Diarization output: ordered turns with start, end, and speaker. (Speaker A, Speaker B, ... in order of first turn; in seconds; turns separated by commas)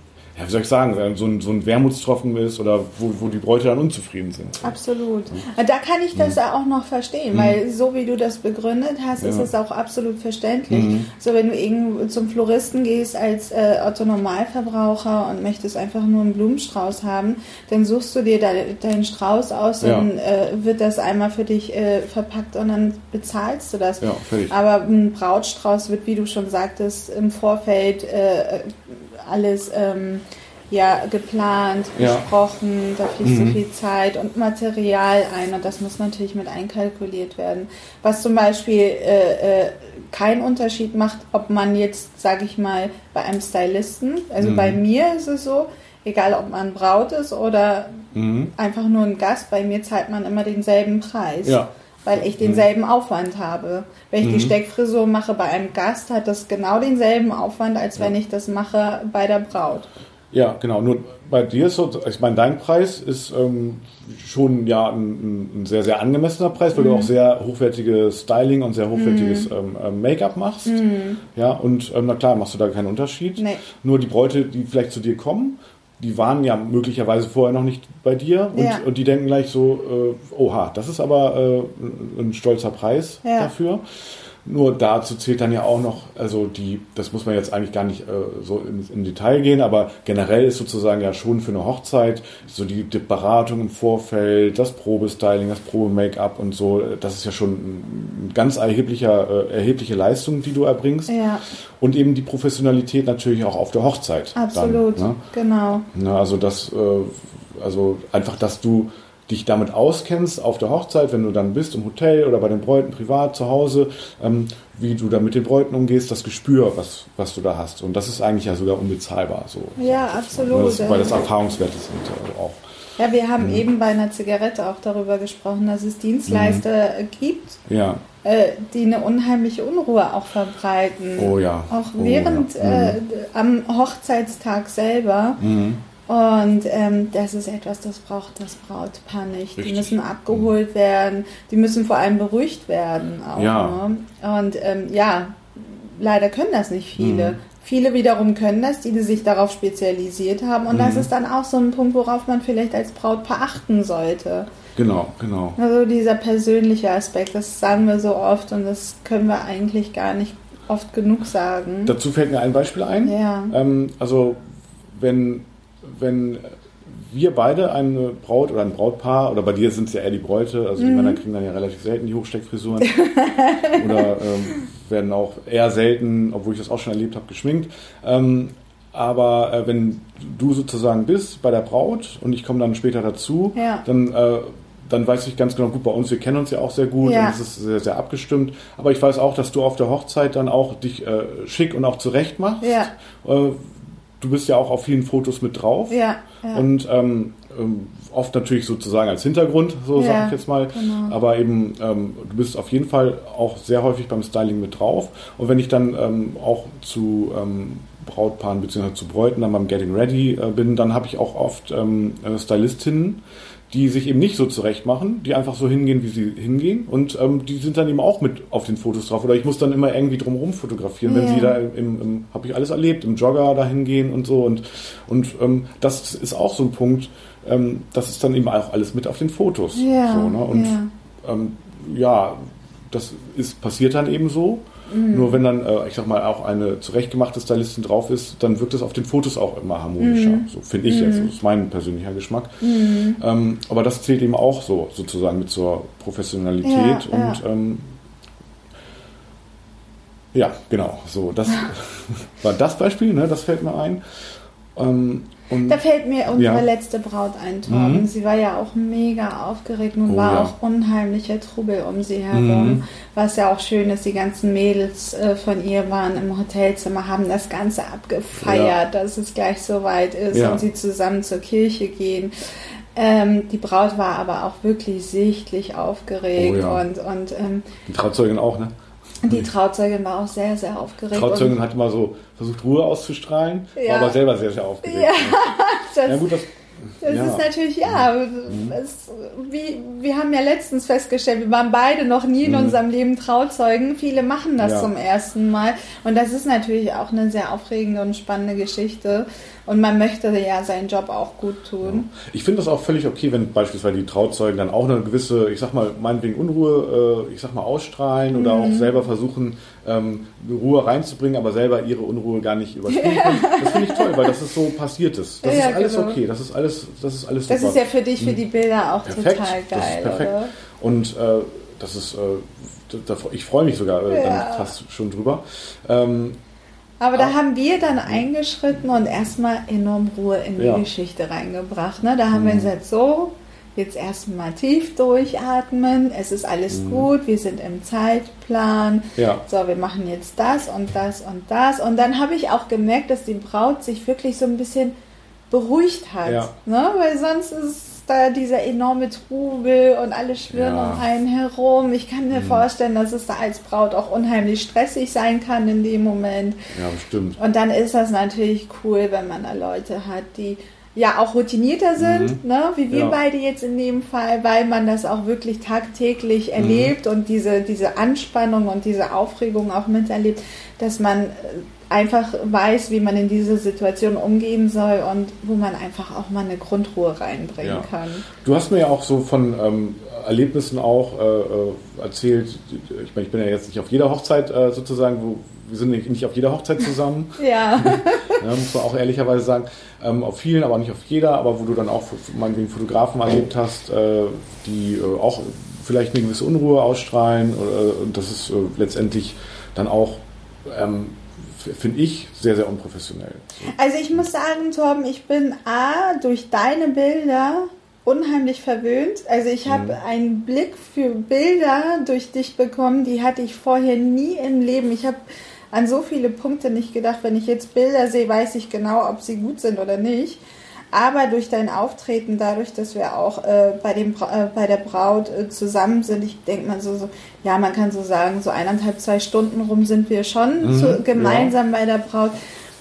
Speaker A: 0.3-4.8, Speaker B: 4.6-48.0, Speaker A: 7.3-7.6, Speaker A: 9.2-9.5, Speaker A: 10.7-11.1, Speaker A: 19.8-20.1, Speaker A: 24.0-24.6, Speaker A: 32.0-32.3, Speaker A: 33.2-33.6, Speaker A: 44.4-44.8, Speaker A: 48.1-48.5, Speaker B: 48.5-59.9, Speaker A: 51.4-51.7, Speaker A: 52.2-52.7, Speaker A: 54.2-54.5, Speaker A: 60.3-70.8, Speaker B: 66.7-67.1, Speaker B: 68.9-69.5, Speaker B: 70.7-71.2, Speaker A: 71.3-83.8, Speaker B: 78.5-78.8, Speaker B: 83.2-83.5, Speaker A: 84.4-101.1, Speaker B: 101.1-101.4, Speaker A: 101.8-105.2, Speaker B: 104.3-105.8, Speaker A: 105.9-122.6, Speaker B: 119.8-121.2, Speaker B: 123.0-127.6, Speaker A: 123.4-123.6, Speaker A: 126.3-126.6, Speaker A: 127.7-128.0, Speaker B: 128.2-135.4, Speaker A: 131.2-133.0, Speaker A: 135.4-135.8, Speaker B: 136.1-154.5, Speaker A: 139.6-140.5, Speaker A: 143.3-143.8, Speaker A: 147.0-147.4, Speaker A: 150.7-151.1, Speaker A: 154.8-155.6, Speaker B: 155.6-161.9, Speaker A: 161.8-164.4, Speaker B: 163.0-163.5, Speaker A: 164.9-172.9, Speaker B: 170.8-171.2, Speaker B: 172.8-174.1, Speaker A: 173.7-196.0, Speaker B: 183.6-183.8, Speaker B: 187.0-187.3, Speaker B: 192.6-192.9, Speaker B: 195.9-196.6, Speaker A: 196.5-213.2, Speaker B: 199.9-201.1, Speaker A: 213.7-247.9, Speaker B: 221.0-221.6, Speaker B: 229.7-230.9, Speaker B: 234.9-235.4, Speaker B: 240.0-241.3, Speaker B: 242.6-243.2, Speaker B: 246.6-247.4, Speaker A: 250.3-254.0, Speaker A: 254.7-255.8, Speaker B: 255.7-272.3, Speaker A: 256.3-256.6, Speaker A: 257.7-258.1, Speaker A: 260.1-260.5, Speaker A: 262.3-262.8, Speaker A: 268.4-268.8, Speaker A: 270.3-270.6, Speaker B: 272.9-277.6, Speaker A: 276.4-276.8, Speaker A: 277.9-278.7, Speaker B: 279.2-281.5, Speaker A: 281.1-285.5, Speaker B: 283.8-284.2, Speaker B: 284.8-286.3, Speaker A: 286.1-288.8, Speaker B: 287.0-302.1, Speaker A: 292.4-292.8, Speaker A: 294.6-294.9, Speaker A: 301.8-318.4, Speaker B: 308.3-308.9, Speaker B: 312.9-314.3, Speaker B: 315.4-316.2, Speaker B: 317.5-320.5, Speaker A: 319.0-326.4, Speaker B: 324.1-324.7, Speaker B: 327.0-344.9, Speaker A: 330.6-330.9, Speaker A: 332.3-332.7, Speaker A: 336.7-337.1, Speaker A: 339.1-339.4, Speaker B: 345.5-356.6, Speaker A: 346.2-346.5, Speaker A: 350.5-351.1, Speaker A: 352.3-352.6, Speaker A: 356.7-357.4, Speaker B: 357.4-378.2, Speaker A: 362.0-363.2, Speaker A: 366.6-366.9, Speaker A: 377.6-403.7, Speaker B: 387.4-388.4, Speaker B: 403.7-415.2, Speaker A: 409.6-410.0, Speaker B: 415.7-432.4, Speaker A: 430.6-431.5